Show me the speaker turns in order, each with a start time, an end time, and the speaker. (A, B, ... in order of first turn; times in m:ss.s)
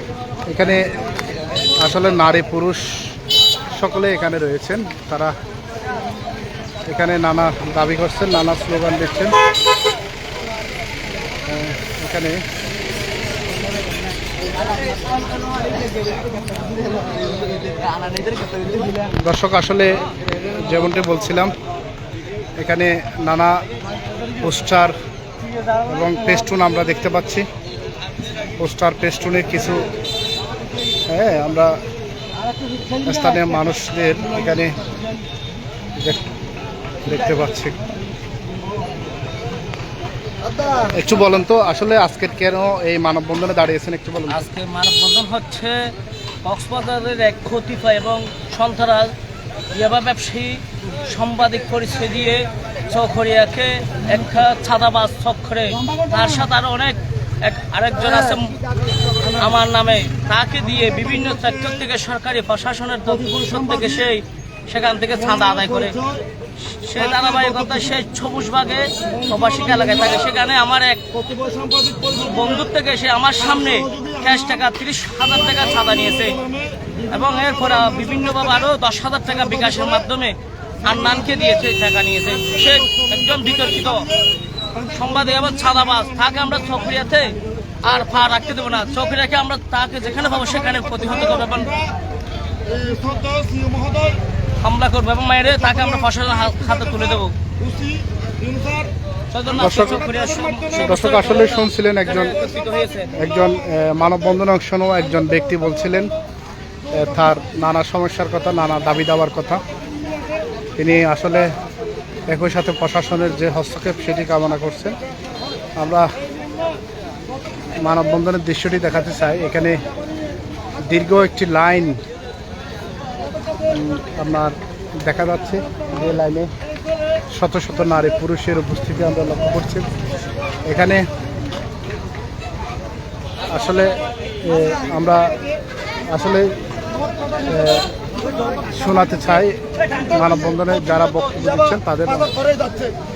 0:00.5-0:00.8 A
0:01.8-0:03.1 A
0:03.7-0:05.3 A
0:06.9-0:09.4 A
0:11.5-0:12.4 A
0:19.2-0:21.5 A
0:22.6-0:23.6 A
0:24.4-0:24.9 A
0:25.8-0:27.4 A
0:28.6-0:29.9 A
0:31.1-0:31.8 A
0:33.0-0:34.8 A
0:36.0-0:36.2 A
0:37.0-0:37.8 A
0:40.9-0:44.4 A
0:44.3-0:45.9 B
0:46.4-0:49.1 B
0:49.7-0:58.5 B
0:59.2-1:06.0 B
1:00.7-1:01.8 C
1:03.1-1:04.0 C
1:05.2-1:06.2 C
1:06.6-1:11.0 B
1:07.0-1:07.9 C
1:09.0-1:10.3 C
1:11.1-1:12.7 C
1:12.1-1:16.4 B
1:13.4-1:14.6 C
1:15.5-1:18.7 C
1:17.1-1:24.1 B
1:19.3-1:20.0 C
1:20.9-1:21.5 C
1:22.6-1:27.0 C
1:24.9-1:31.7 B
1:28.2-1:29.1 C
1:30.2-1:31.9 C
1:32.6-1:34.2 C
1:34.6-1:37.3 B
1:35.6-1:38.9 C
1:39.3-1:43.1 B
1:39.5-1:41.1 C
1:39.6-1:40.0 A
1:40.7-1:42.3 A
1:43.2-1:46.1 A
1:46.9-1:49.6 A
1:50.8-1:51.5 A
1:52.3-1:54.9 A
1:55.8-1:56.1 A
1:57.8-1:59.8 A
2:00.8-2:02.0 A
2:03.6-2:06.5 A
2:07.3-2:09.9 A
2:10.6-2:11.0 A
2:13.5-2:15.4 A
2:16.1-2:16.6 A
2:17.4-2:17.9 A
2:18.7-2:22.3 A
2:20.8-2:22.9 C